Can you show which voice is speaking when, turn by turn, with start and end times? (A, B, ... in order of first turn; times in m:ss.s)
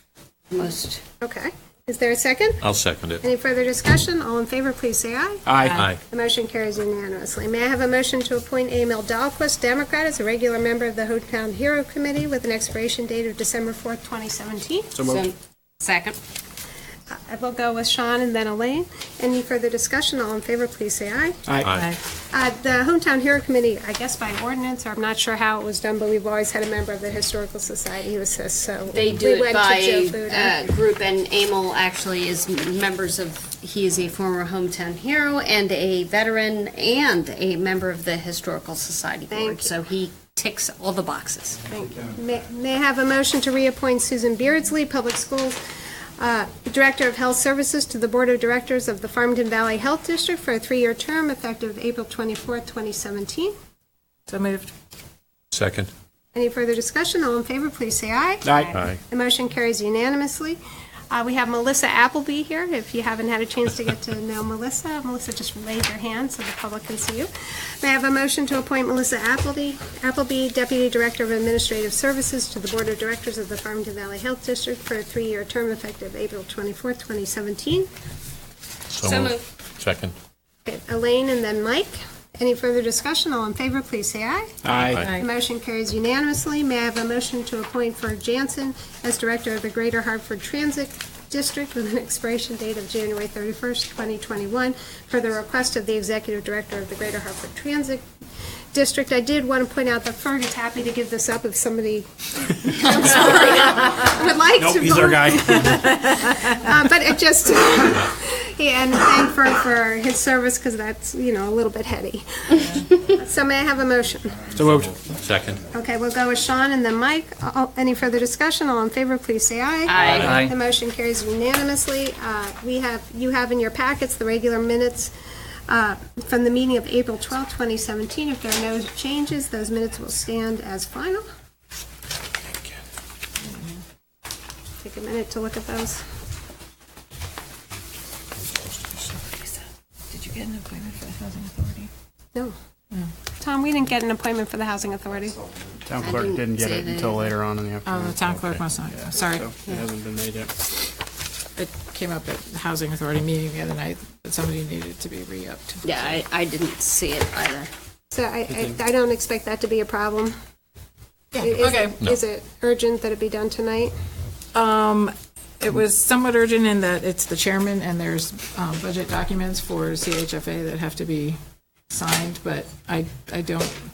0:00.5-0:01.0 A
0:01.2-0:02.6 B
0:02.6-0:03.2 C
0:03.2-0:14.9 B
0:05.4-0:05.8 D
0:05.6-0:05.9 E
0:14.9-0:15.2 D
0:15.0-0:16.2 A
0:17.1-0:21.4 B
0:21.4-0:21.7 D
0:21.6-0:21.9 C
0:21.7-0:22.0 E
0:22.3-0:30.7 B
0:28.9-0:41.6 A
0:39.3-0:39.7 B
0:41.6-0:45.6 B
0:46.2-0:53.5 B
0:54.3-0:54.7 E
0:55.5-0:55.9 C
0:56.3-1:00.6 B
0:58.4-0:58.8 D
0:58.7-0:59.0 C
1:01.1-1:17.9 B
1:18.9-1:20.1 C
1:19.0-1:19.4 A
1:20.6-1:24.5 B
1:24.6-1:25.1 D
1:24.8-1:25.1 C
1:25.0-1:25.2 E
1:25.1-1:38.0 B
1:38.7-1:54.5 B
1:44.6-1:45.9 D
1:54.6-1:54.9 D
1:54.9-1:55.6 C
1:55.7-2:05.1 B
1:59.9-2:00.4 A
2:05.7-2:11.2 B
2:13.4-2:13.8 E
2:14.8-2:16.0 B
2:20.1-2:21.9 E
2:23.4-2:25.4 B
2:25.8-2:28.2 D
2:26.0-2:27.3 A
2:27.8-2:29.5 E
2:28.2-2:28.6 C
2:29.2-2:30.5 D
2:31.6-2:36.2 E
2:35.8-2:37.7 A
2:38.1-2:40.4 B
2:41.3-2:43.9 B
2:41.5-2:42.0 E
2:44.5-2:51.4 E
2:51.9-2:53.8 E